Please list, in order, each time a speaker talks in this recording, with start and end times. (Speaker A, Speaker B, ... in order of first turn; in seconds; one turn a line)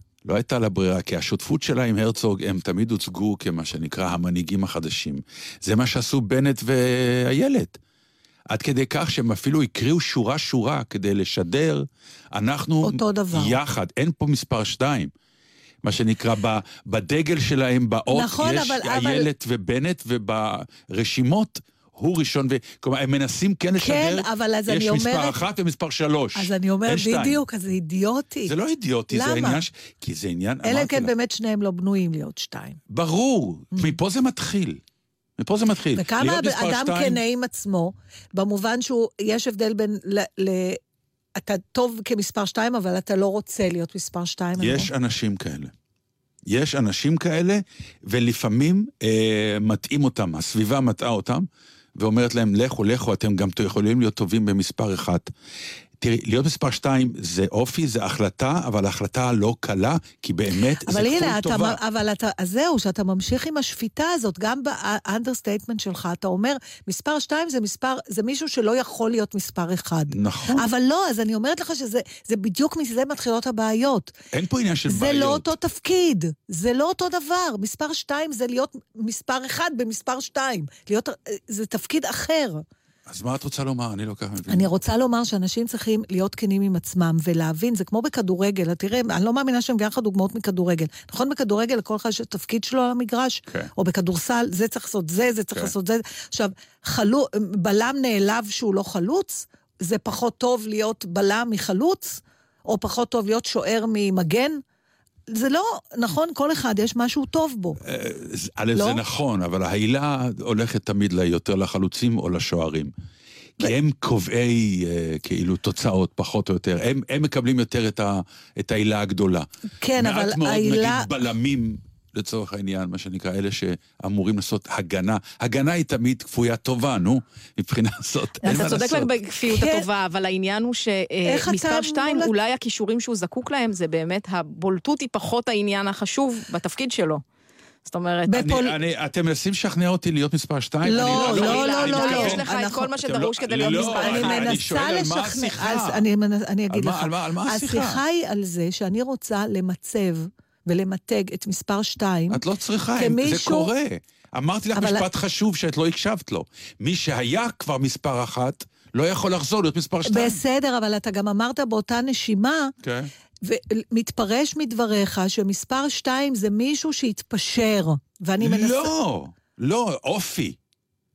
Speaker A: 0.2-7.8
Speaker A: 8.5-15.1
Speaker B: 12.8-13.6
Speaker A: 15.8-27.4
Speaker B: 18.1-19.3
Speaker B: 23.8-25.4
Speaker B: 26.4-28.5
Speaker A: 28.4-31.1
Speaker B: 29.1-29.6
Speaker B: 30.6-32.8
Speaker A: 32.9-34.8
Speaker A: 35.4-37.2
Speaker B: 36.0-40.8
Speaker B: 41.4-44.9
Speaker A: 44.6-45.7
Speaker A: 46.5-55.3
Speaker A: 56.0-61.8
Speaker B: 60.9-74.1
Speaker A: 70.1-70.7
Speaker A: 74.3-75.5
Speaker B: 74.9-82.6
Speaker A: 83.1-84.7
Speaker B: 84.5-104.6
Speaker B: 105.3-107.8
Speaker A: 107.8-112.9
Speaker B: 108.7-109.0
Speaker A: 113.6-129.1
Speaker B: 119.8-121.1
Speaker C: 128.4-137.2
Speaker B: 128.5-128.8
Speaker B: 129.5-129.8
Speaker B: 131.2-132.3
Speaker C: 137.8-138.3
Speaker B: 138.3-138.8
Speaker A: 138.3-146.1
Speaker B: 140.8-142.9
Speaker C: 140.9-144.5
Speaker B: 143.6-152.4
Speaker A: 146.7-148.0
Speaker A: 152.3-160.4
Speaker B: 152.9-153.7
Speaker B: 154.7-155.0
Speaker B: 160.1-162.7
Speaker A: 162.8-163.1
Speaker B: 163.4-168.9
Speaker A: 168.4-170.6